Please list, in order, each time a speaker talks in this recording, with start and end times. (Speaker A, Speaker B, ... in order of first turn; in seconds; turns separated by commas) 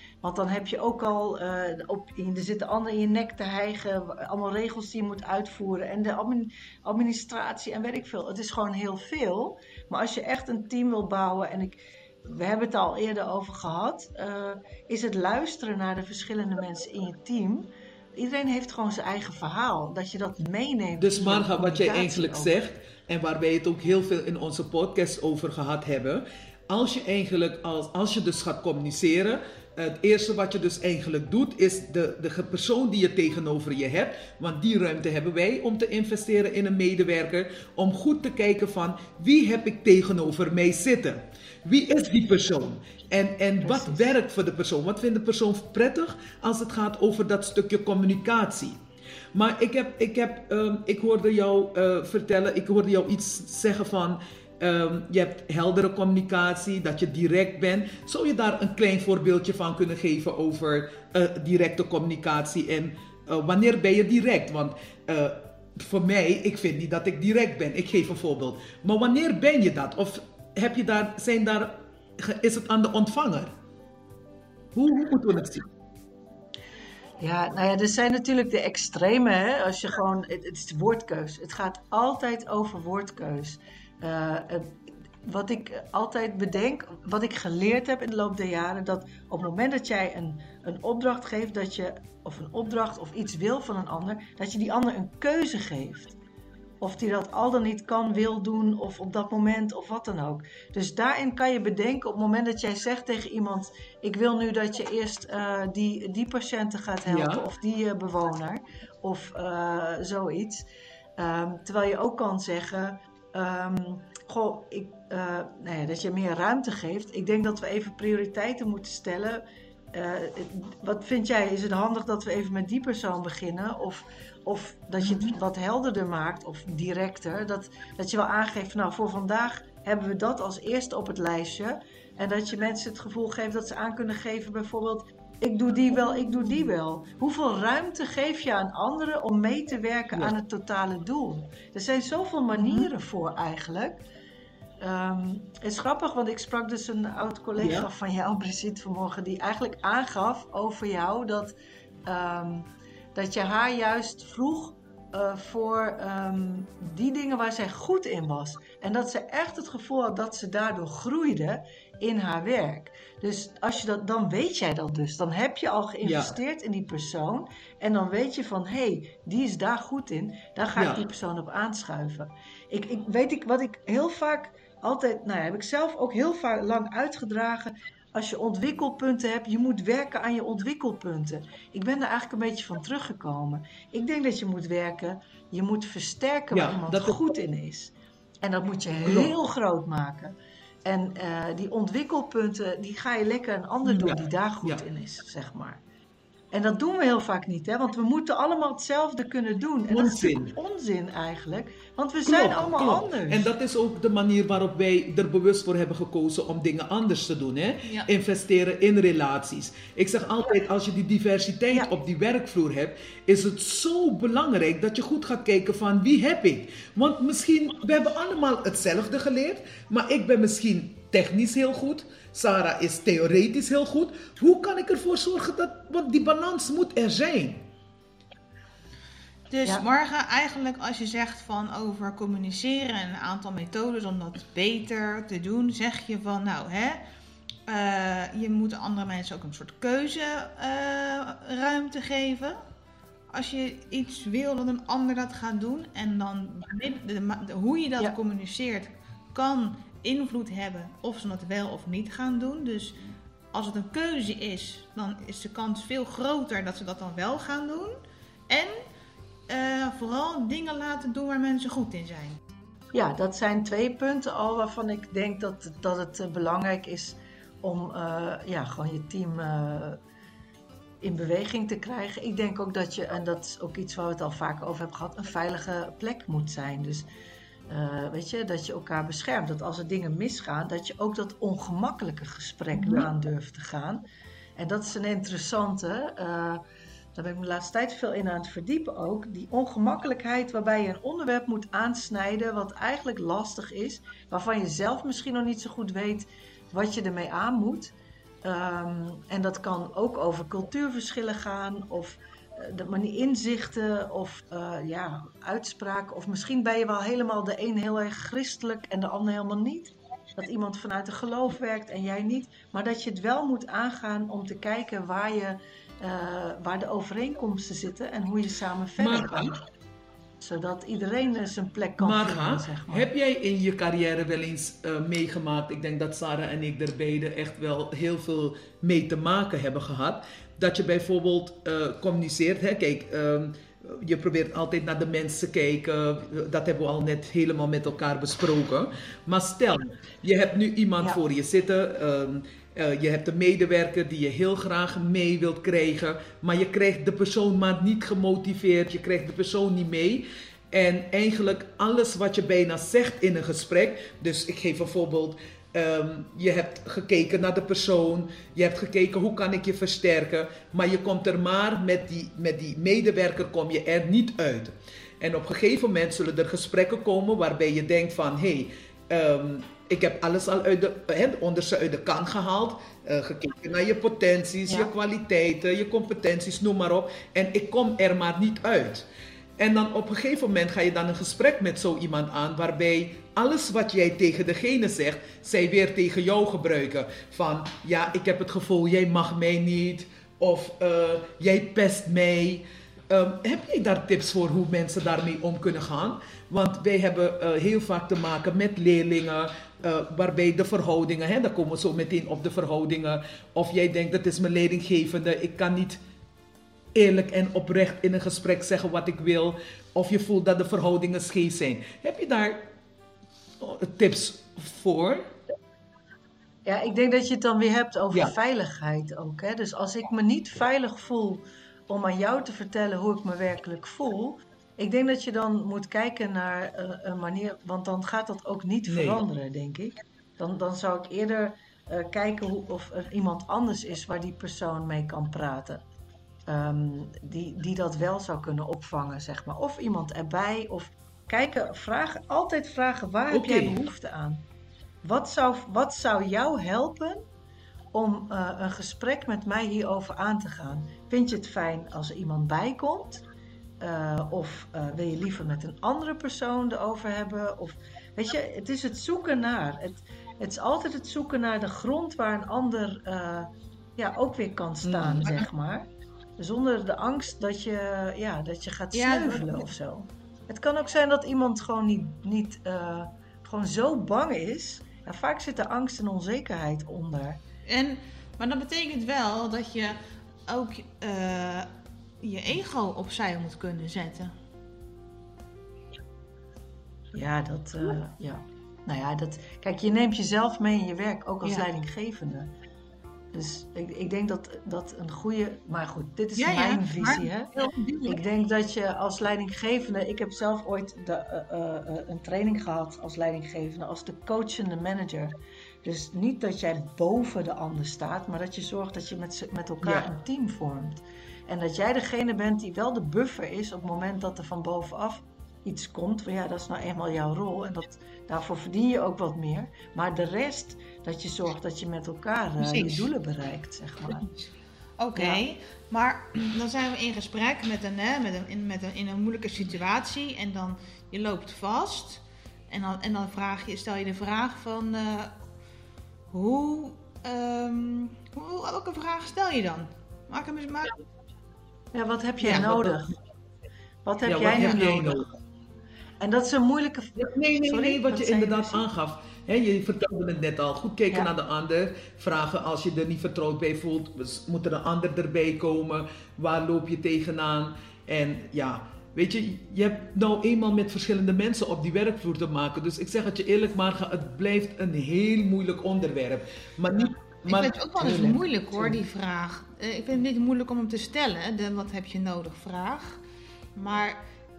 Speaker A: 0.2-22.5, Speaker B: 21.0-48.8, Speaker A: 43.6-44.1, Speaker B: 49.3-73.5, Speaker B: 74.8-75.7, Speaker A: 77.2-96.2, Speaker A: 96.8-110.7, Speaker B: 107.1-107.4, Speaker A: 111.2-144.0, Speaker A: 144.8-190.3, Speaker B: 147.6-147.9, Speaker B: 166.0-166.3, Speaker B: 170.8-171.0, Speaker B: 186.5-187.2, Speaker B: 189.0-189.3, Speaker A: 190.8-195.8, Speaker B: 193.8-194.8, Speaker A: 196.5-203.5, Speaker B: 199.9-200.6, Speaker B: 202.2-227.6, Speaker C: 229.5-237.0, Speaker C: 237.7-242.6, Speaker C: 243.3-253.0, Speaker C: 253.5-258.0, Speaker C: 258.5-258.8, Speaker C: 259.5-262.4, Speaker A: 262.9-270.0, Speaker A: 271.0-277.1, Speaker A: 277.7-284.0, Speaker B: 282.8-283.1, Speaker A: 284.6-286.6, Speaker A: 287.1-319.6, Speaker B: 319.0-319.6, Speaker A: 320.4-323.1, Speaker B: 322.0-379.1, Speaker B: 379.6-406.0, Speaker B: 406.9-412.7, Speaker B: 413.6-415.3, Speaker A: 416.6-435.8, Speaker B: 428.9-429.2, Speaker A: 436.5-444.4, Speaker B: 443.3-443.9, Speaker A: 445.0-447.2, Speaker A: 447.9-453.2, Speaker A: 453.8-477.4, Speaker B: 464.8-465.4, Speaker C: 468.9-469.7, Speaker C: 477.7-481.7, Speaker C: 482.2-484.3, Speaker A: 487.1-492.5, Speaker A: 493.3-497.5, Speaker C: 496.4-498.2, Speaker A: 498.1-524.3, Speaker B: 509.8-510.1, Speaker C: 522.6-523.1, Speaker C: 524.1-524.4, Speaker C: 525.0-535.3, Speaker A: 525.1-525.4, Speaker C: 536.3-541.0, Speaker A: 541.9-543.1, Speaker B: 542.4-543.0, Speaker A: 544.0-545.3, Speaker B: 544.2-545.3, Speaker A: 546.2-548.9, Speaker B: 547.2-569.0, Speaker C: 567.5-573.2, Speaker C: 573.8-574.2